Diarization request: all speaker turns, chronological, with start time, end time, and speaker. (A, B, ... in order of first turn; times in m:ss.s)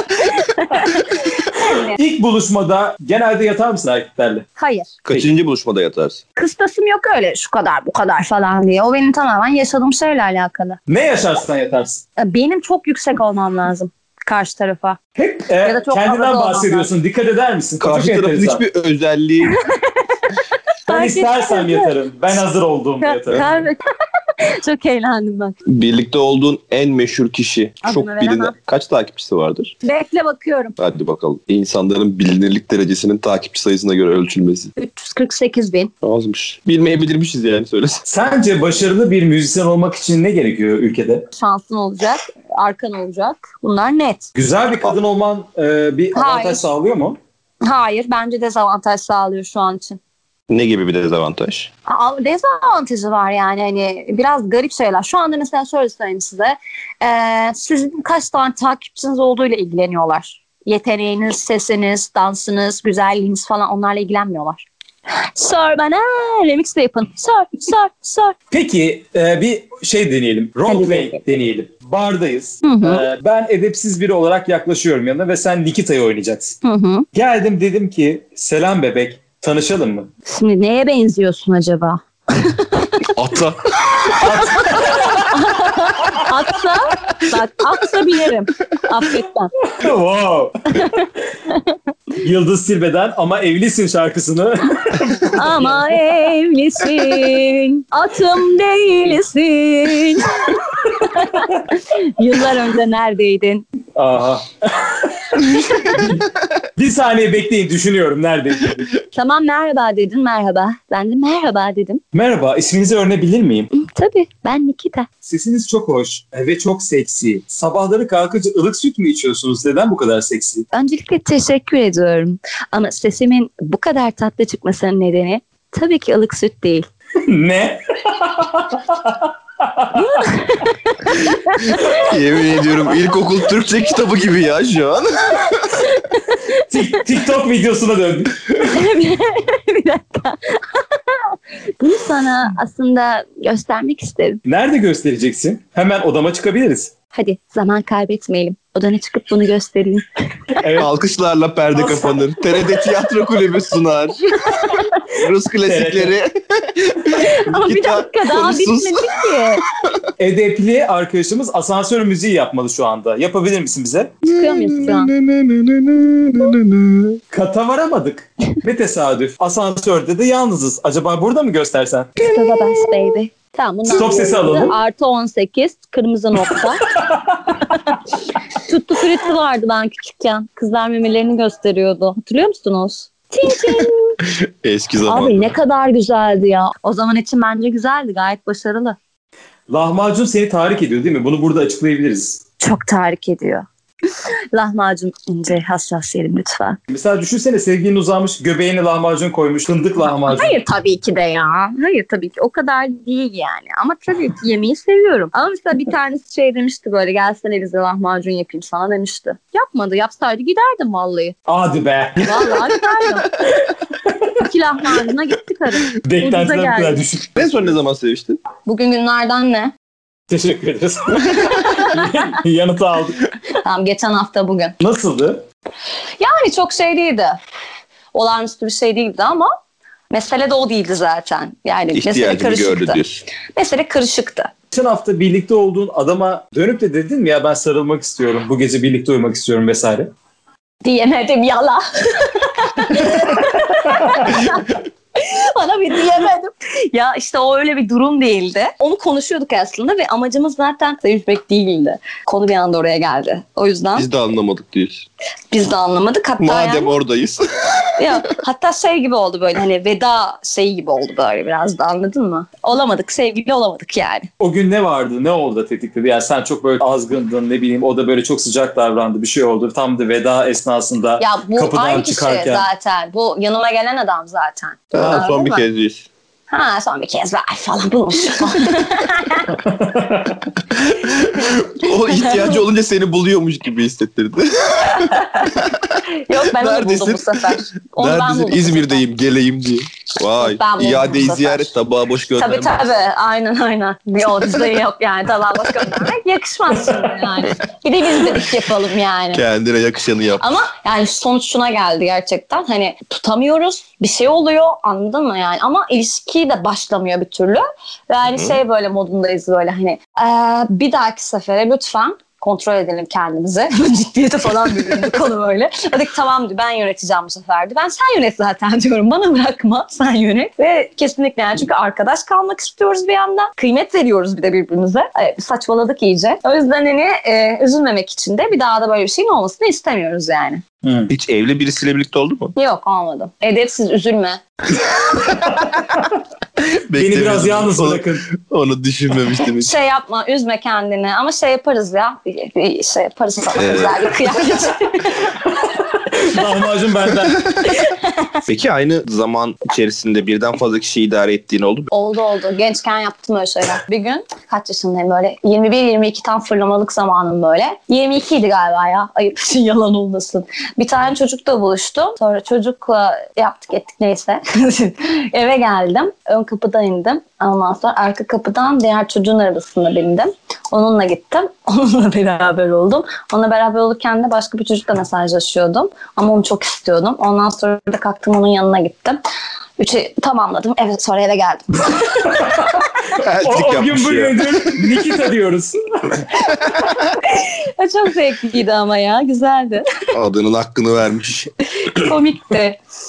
0:00.4-0:02.0 A
0:01.6-0:04.5 B
0:04.6-0:04.9 A
0:05.0-0:06.2 C
0:06.4-0:10.8 A
0:10.9-0:12.0 B
0:12.2-0:15.0 A
0:15.2-0:18.6 B
0:15.6-0:16.9 A
0:17.8-0:19.5 C
0:19.4-0:21.9 A
0:20.9-0:23.4 B
0:23.0-0:23.8 A
0:24.4-0:25.6 A
0:25.7-0:29.8 C
0:27.8-0:28.5 A
0:29.8-0:30.8 A
0:30.8-0:34.7 C
0:34.8-0:35.9 A
0:36.0-0:38.0 C
0:38.1-0:41.3 B
0:41.3-0:44.3 A
0:44.4-0:47.2 B
0:46.1-0:46.7 A
0:47.6-0:50.0 A
0:50.5-0:51.7 C
0:51.9-1:04.6 A
1:05.2-1:08.4 A
1:08.5-1:16.6 B
1:10.7-1:11.2 A
1:12.6-1:13.0 A
1:16.6-1:17.1 A
1:17.1-1:20.1 B
1:20.3-1:22.9 A
1:23.2-1:23.6 C
1:24.0-1:29.5 A
1:24.1-1:25.4 B
1:29.7-1:31.0 B
1:30.7-1:31.8 A
1:32.2-1:35.9 B
1:35.3-1:43.7 A
1:44.0-1:48.9 B
1:45.5-1:46.1 A
1:49.1-1:52.0 A
1:52.1-1:53.7 B
1:53.7-1:55.1 A
1:55.2-2:00.7 B
2:00.7-2:06.9 A
2:07.3-2:10.3 B
2:09.9-2:12.1 A
2:11.9-2:15.9 C
2:15.8-2:16.9 A
2:16.7-2:18.5 B
2:18.6-2:24.4 A
2:24.4-2:26.9 B
2:27.1-2:30.6 A
2:30.6-2:30.9 B
2:30.8-2:34.3 C
2:31.8-2:32.2 B
2:34.4-2:35.0 A
2:35.2-2:40.1 C
2:35.6-2:36.1 B
2:37.1-2:39.6 A
2:40.2-2:44.1 B
2:44.3-2:47.2 C
2:44.3-2:45.1 A
2:47.3-2:52.3 B
2:52.2-2:56.9 A
2:53.9-2:54.8 B
2:57.0-2:57.6 B
2:57.5-2:58.0 A
2:58.5-3:04.2 A
3:04.2-3:05.5 C
3:05.1-3:09.0 A
3:09.7-3:12.4 B
3:12.6-3:13.7 A
3:14.5-3:16.8 A
3:16.9-3:20.6 B
3:20.3-3:31.4 A
3:31.5-3:32.6 B
3:32.2-3:33.4 A
3:34.4-3:37.0 A
3:36.0-3:37.5 B
3:37.4-3:38.4 C
3:38.7-3:39.7 A
3:40.3-3:43.3 B
3:41.3-3:42.0 A
3:43.6-3:44.8 A
3:44.8-3:45.4 B
3:46.2-3:47.4 A
3:48.1-3:49.5 A
3:50.1-3:53.0 A
3:51.9-3:53.2 C
3:53.6-3:54.5 A
3:54.7-4:00.1 B
4:00.8-4:14.1 A
4:14.0-4:15.1 C
4:15.5-4:16.9 A
4:16.4-4:17.9 C
4:18.0-4:24.3 A
4:24.4-4:32.6 B
4:31.2-4:35.6 A
4:34.9-4:36.1 C
4:36.5-4:39.6 A
4:39.6-4:40.5 B
4:40.7-4:52.8 C
4:42.1-4:42.6 A
4:44.9-4:49.0 A
4:50.4-4:51.7 A
4:52.4-4:59.4 A
4:59.3-5:00.4 C
5:00.4-5:30.6 A
5:30.8-5:31.1 B
5:31.1-5:32.5 C
5:32.6-5:34.4 A
5:35.1-5:36.0 C
5:36.9-5:39.7 C
5:36.9-5:38.3 B
5:39.6-5:45.4 A
5:43.6-5:44.2 C
5:45.9-5:47.5 B
5:47.6-5:48.3 A
5:48.5-5:51.9 C
5:51.9-6:19.2 A
6:19.8-6:22.4 A
6:23.2-6:24.9 C
6:23.4-6:26.3 B
6:27.1-6:29.8 A
6:30.1-6:31.5 C
6:31.8-6:32.8 A